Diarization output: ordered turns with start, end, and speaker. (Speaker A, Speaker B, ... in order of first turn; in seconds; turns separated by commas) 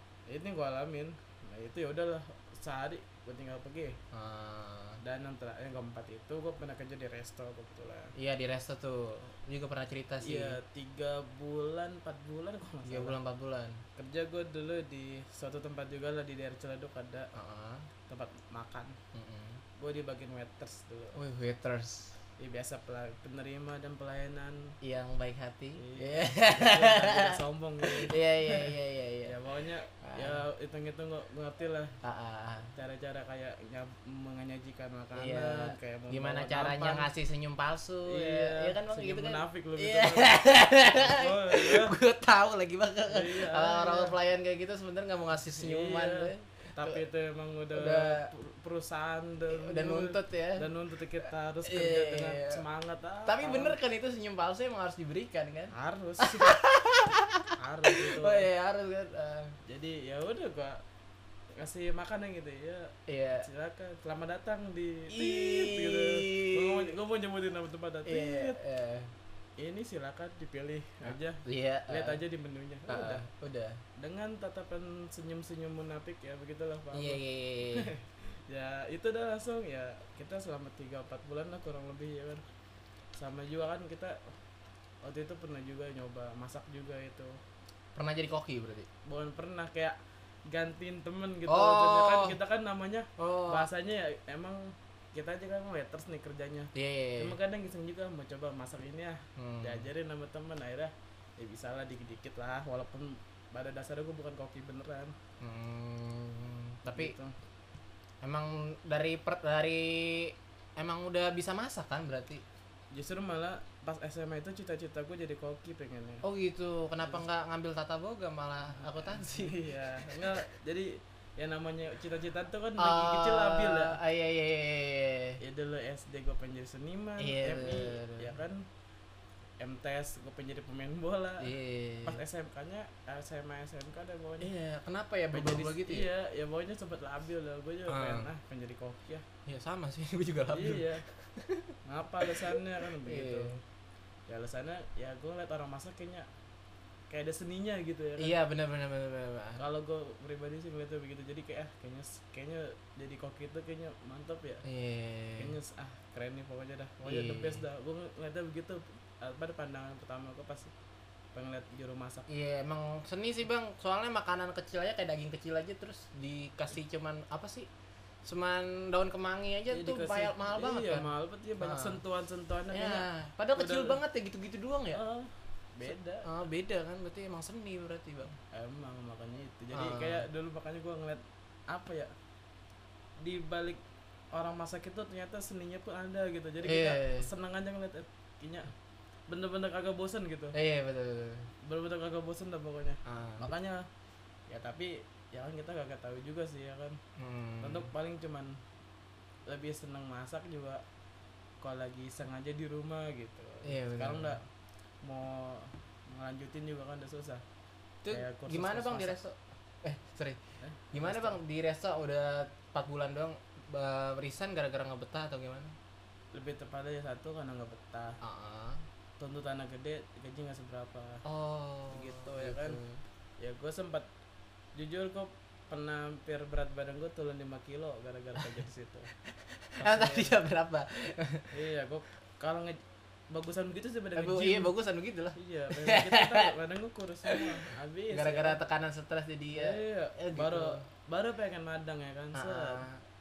Speaker A: 0.3-4.0, Speaker B: 4.1-5.0, Speaker A: 5.0-8.1, Speaker B: 8.2-10.6, Speaker A: 10.2-13.2, Speaker B: 12.9-13.8, Speaker A: 14.0-17.3, Speaker B: 17.3-17.9, Speaker A: 18.1-19.0, Speaker B: 19.1-19.6, Speaker A: 19.8-21.2, Speaker B: 21.1-22.2, Speaker A: 22.4-24.8, Speaker B: 24.8-29.4, Speaker A: 25.8-32.0, Speaker B: 30.0-30.4, Speaker B: 32.0-32.7, Speaker A: 32.8-37.1, Speaker B: 35.2-47.0, Speaker A: 38.1-41.9, Speaker A: 43.1-44.2, Speaker A: 45.5-53.8, Speaker B: 47.7-48.3, Speaker B: 49.5-50.7, Speaker B: 51.6-52.6, Speaker B: 53.3-59.5, Speaker A: 55.7-56.6, Speaker A: 57.6-58.5, Speaker A: 59.7-60.8, Speaker A: 61.6-68.6, Speaker B: 63.1-63.5, Speaker B: 65.1-67.0, Speaker B: 68.1-69.1, Speaker A: 69.6-73.3, Speaker B: 71.0-72.2, Speaker B: 72.9-73.8, Speaker A: 74.0-82.4, Speaker B: 76.9-77.9, Speaker A: 83.2-84.3, Speaker A: 85.0-87.4, Speaker B: 88.0-88.9, Speaker A: 89.0-105.1, Speaker B: 91.5-92.4, Speaker B: 93.2-93.7, Speaker B: 96.7-97.4, Speaker B: 99.4-99.9, Speaker B: 105.4-107.1, Speaker A: 106.8-107.3, Speaker B: 108.2-112.4, Speaker A: 112.9-116.2, Speaker B: 116.2-120.4, Speaker A: 118.9-124.0, Speaker B: 122.8-125.4, Speaker A: 125.4-128.7, Speaker B: 127.2-128.4, Speaker A: 129.6-134.5, Speaker B: 131.4-132.2, Speaker B: 134.4-136.1, Speaker A: 135.3-139.2, Speaker B: 137.9-138.3, Speaker B: 139.5-143.6, Speaker A: 140.5-141.1, Speaker A: 141.8-143.6, Speaker A: 144.3-146.3, Speaker A: 147.1-148.3, Speaker B: 148.2-149.6, Speaker A: 149.6-154.7, Speaker B: 154.6-155.6, Speaker A: 155.4-160.7, Speaker B: 157.0-157.6, Speaker A: 161.3-162.3, Speaker B: 162.3-167.7, Speaker B: 168.2-172.0, Speaker A: 169.7-174.0, Speaker B: 172.7-175.0, Speaker A: 174.9-176.3, Speaker B: 176.2-178.4, Speaker A: 178.5-182.1, Speaker B: 179.7-180.2, Speaker A: 183.2-183.8, Speaker A: 184.3-188.7, Speaker B: 186.6-187.3, Speaker A: 189.3-190.6, Speaker B: 190.5-191.5, Speaker A: 191.6-193.9, Speaker B: 193.1-193.5, Speaker A: 194.5-197.0, Speaker B: 197.2-197.9, Speaker A: 197.6-198.6, Speaker A: 199.5-200.8, Speaker A: 201.6-204.5, Speaker B: 203.6-204.4, Speaker A: 205.0-207.4, Speaker B: 208.0-210.4, Speaker A: 208.1-209.2, Speaker A: 210.6-211.4, Speaker B: 210.9-215.8, Speaker A: 216.3-218.2, Speaker B: 218.2-218.8, Speaker A: 219.2-221.2, Speaker B: 221.2-223.0, Speaker A: 221.9-222.8, Speaker A: 223.4-224.1, Speaker A: 224.8-229.1, Speaker B: 229.3-231.5, Speaker A: 229.8-230.4, Speaker A: 231.5-234.7, Speaker B: 234.2-236.5, Speaker A: 235.3-238.6, Speaker B: 238.1-240.8, Speaker A: 239.5-242.8, Speaker B: 242.3-243.0